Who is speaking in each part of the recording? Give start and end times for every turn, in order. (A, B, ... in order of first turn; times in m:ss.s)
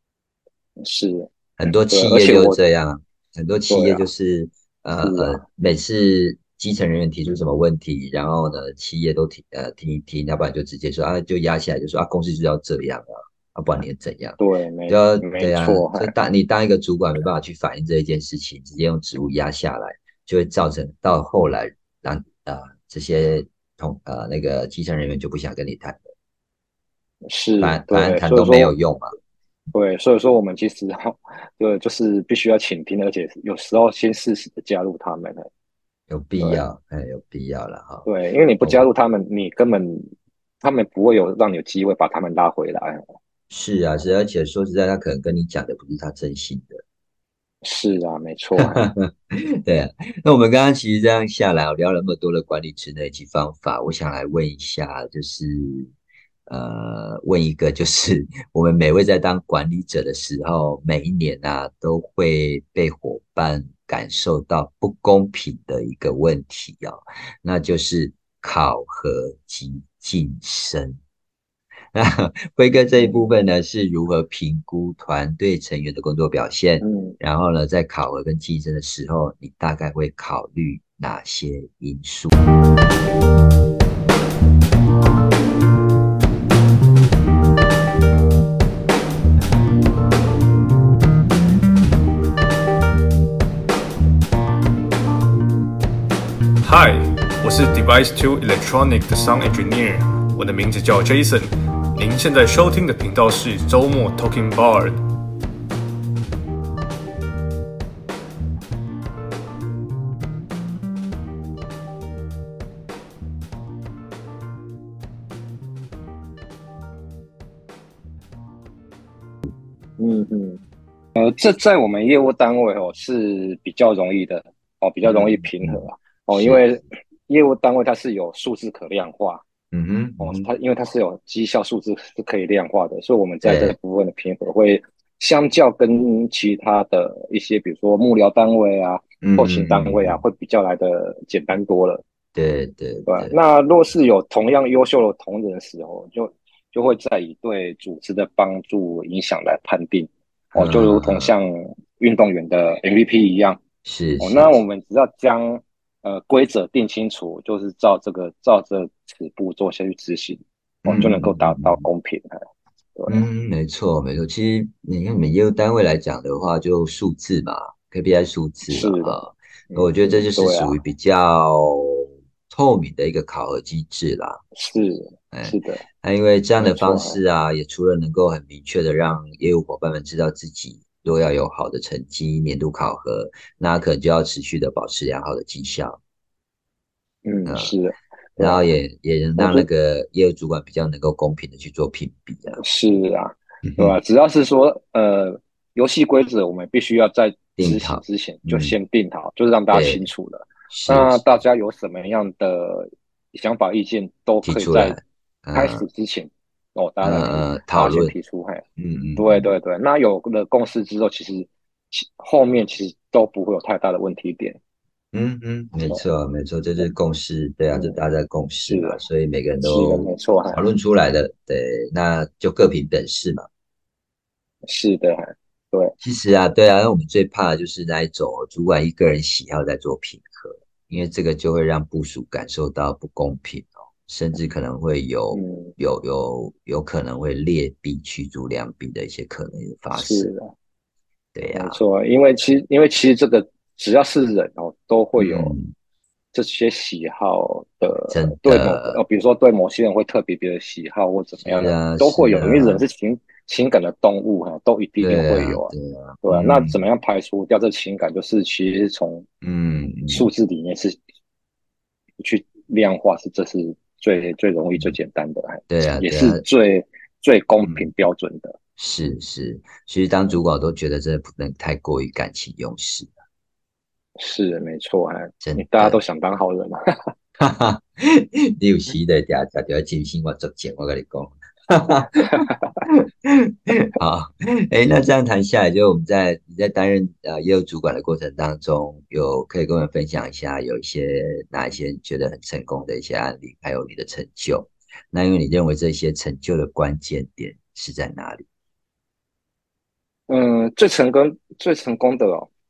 0:00.8-0:02.6 A
0:01.6-0:26.1 B
0:03.7-0:04.0 A
0:05.0-0:05.4 A
0:14.4-0:16.1 A
0:27.2-0:28.7 A
0:27.6-0:29.1 B
0:29.7-0:35.5 A
0:36.1-0:38.1 B
0:38.0-0:40.1 A
0:40.6-0:43.1 A
0:43.5-0:46.8 B
0:47.6-0:48.8 A
0:48.6-0:55.9 B
0:56.5-1:11.0 B
1:11.9-1:22.4 B
1:13.0-1:13.2 A
1:16.8-1:17.2 A
1:36.6-1:45.0 C
2:00.0-2:00.6 A
2:01.1-2:09.4 A
2:05.0-2:06.6 B
2:09.7-2:10.5 B
2:10.2-2:22.0 A
2:13.4-2:13.8 B
2:19.2-2:20.2 B
2:22.3-2:23.4 B
2:23.1-2:33.6 A
2:30.5-2:31.3 B
2:33.8-2:34.6 B
2:34.2-2:42.4 A
2:40.8-2:41.8 B
2:43.0-2:43.2 A
2:43.1-2:54.4 B
2:48.7-2:50.7 A
2:54.5-2:55.8 A
2:55.3-3:06.0 B
2:56.6-2:57.2 A
3:07.2-3:08.6 A
3:07.4-3:07.7 B
3:08.4-3:12.6 B
3:09.4-3:09.6 A
3:12.6-3:25.0 A
3:13.6-3:14.0 B
3:17.6-3:18.8 B
3:19.7-3:20.0 B
3:20.7-3:21.2 B
3:24.4-3:25.8 B
3:25.5-3:28.6 A
3:27.0-3:28.1 B
3:28.8-3:29.4 B
3:29.2-3:34.6 A
3:35.1-3:43.5 B
3:37.7-3:38.0 A
3:38.7-3:39.0 A
3:39.6-3:40.6 A
3:44.7-3:45.9 A
3:46.0-4:00.3 B
3:55.3-3:55.7 A
3:59.9-4:00.5 A
4:01.3-4:01.8 B
4:01.5-4:05.5 A
4:05.2-4:05.7 B
4:06.3-4:15.7 A
4:08.1-4:09.0 B
4:11.4-4:12.8 B
4:15.0-4:16.8 B
4:16.2-4:19.2 A
4:19.4-4:20.3 B
4:20.1-4:21.0 A
4:22.2-4:28.6 A
4:25.7-4:26.4 B
4:28.8-4:33.1 B
4:34.2-4:37.1 A
4:35.4-4:36.0 B
4:37.4-4:58.4 B
5:00.3-5:02.5 A